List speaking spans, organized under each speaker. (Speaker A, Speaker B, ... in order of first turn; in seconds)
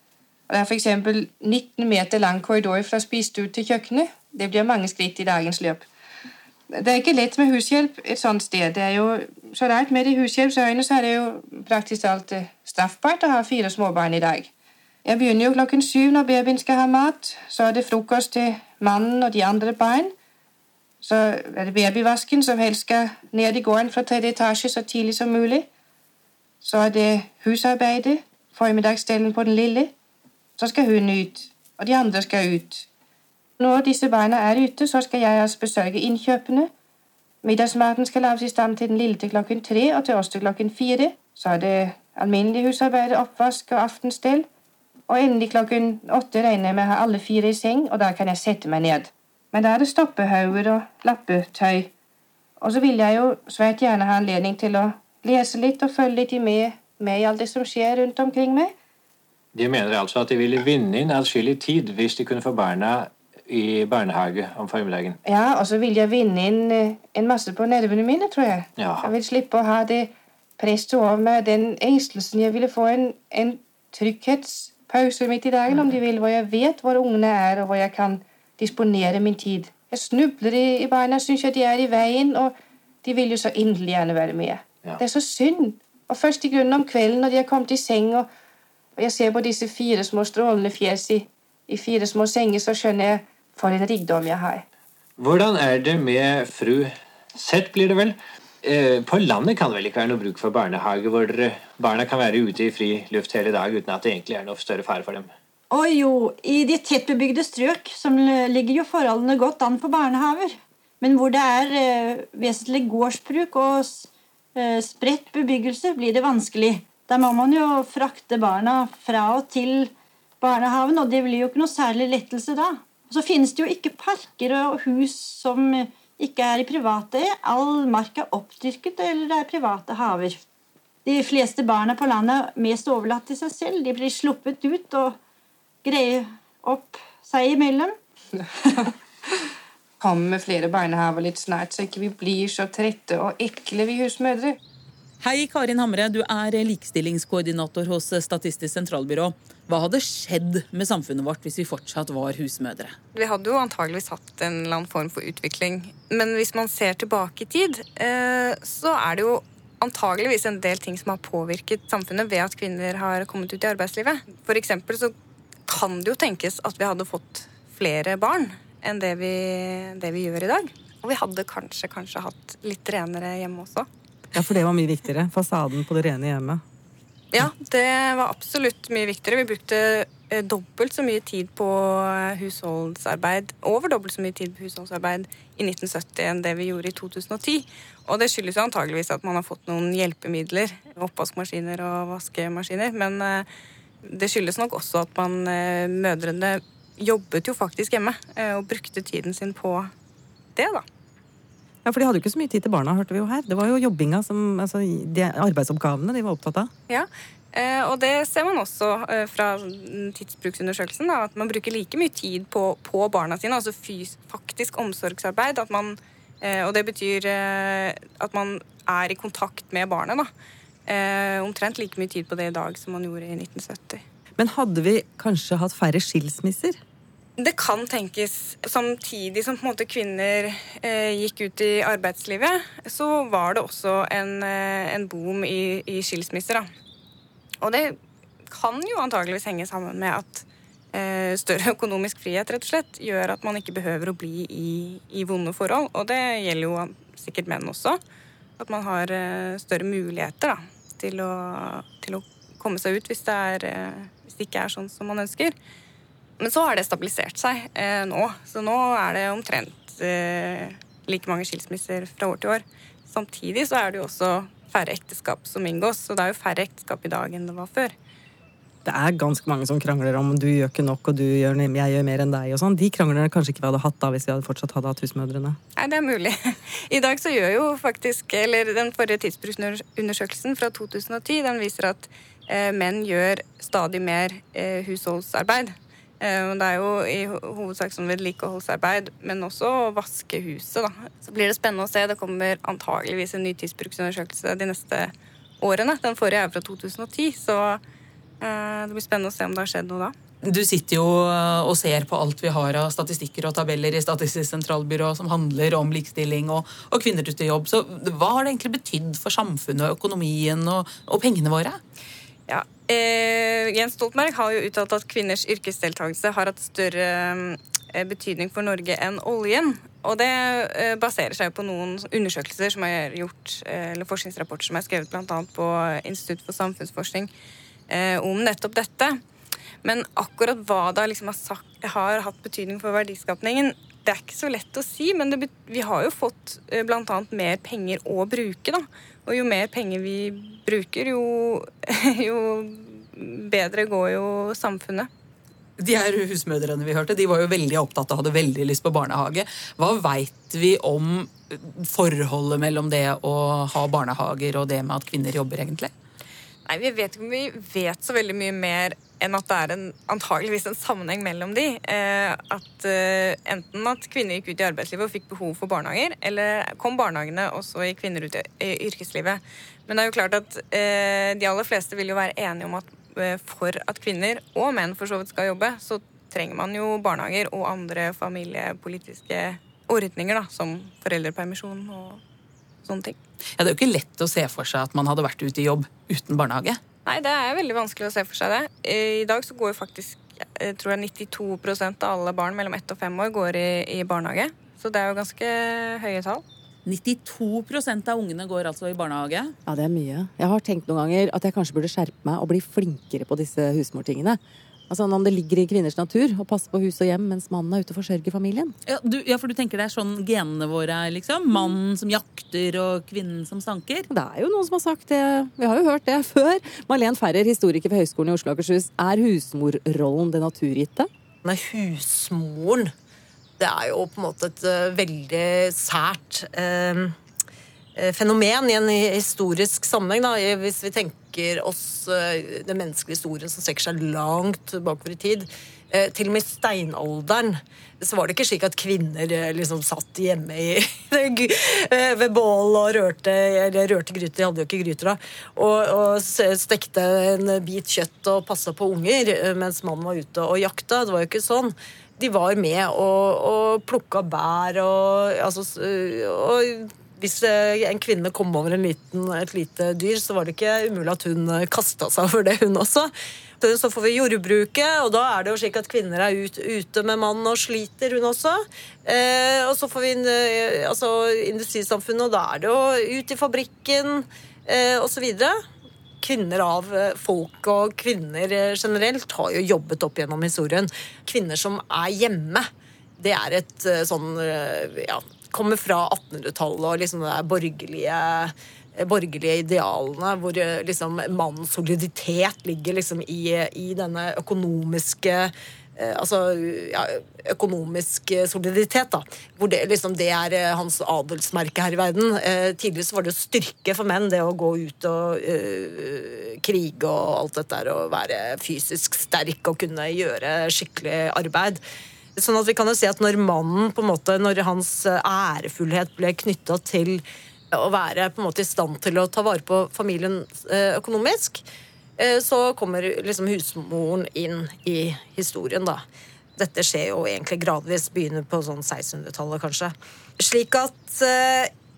Speaker A: 0.5-5.9, 6.7-14.5, 15.0-20.1, 21.0-25.7, 26.6-29.9, 30.6-32.9, 33.6-36.7, 37.4-44.5, 45.1-51.9, 52.6-58.7, 65.2-88.3, 89.0-94.6, 140.0-144.6
Speaker B: 59.5-65.2, 68.8-69.1, 95.2-105.3
Speaker C: 105.7-130.4, 131.0-135.2, 135.8-137.9
Speaker D: 145.2-152.9, 300.4-311.8, 345.8-355.9, 383.6-386.8, 396.8-399.5, 408.9-414.1
Speaker E: 153.1-165.1, 165.7-173.9, 177.3-193.5, 194.0-199.9, 200.6-200.8, 206.9-220.3, 220.8-224.0, 227.4-236.7, 237.6-238.0, 238.5-248.0, 248.6-255.5, 256.4-267.9, 275.8-297.8, 298.4-300.1, 312.5-327.3, 327.9-329.2, 329.8-345.1, 356.6-382.2, 382.8-383.2, 387.0-396.4
Speaker F: 174.3-176.6, 201.8-206.7, 224.4-226.8, 268.8-275.6, 399.6-408.7, 414.1-421.1
Speaker G: 421.4-422.9, 423.6-427.1, 427.9-475.6, 476.2-482.7, 483.2-511.8, 512.4-521.6, 522.2-526.0, 526.6-531.7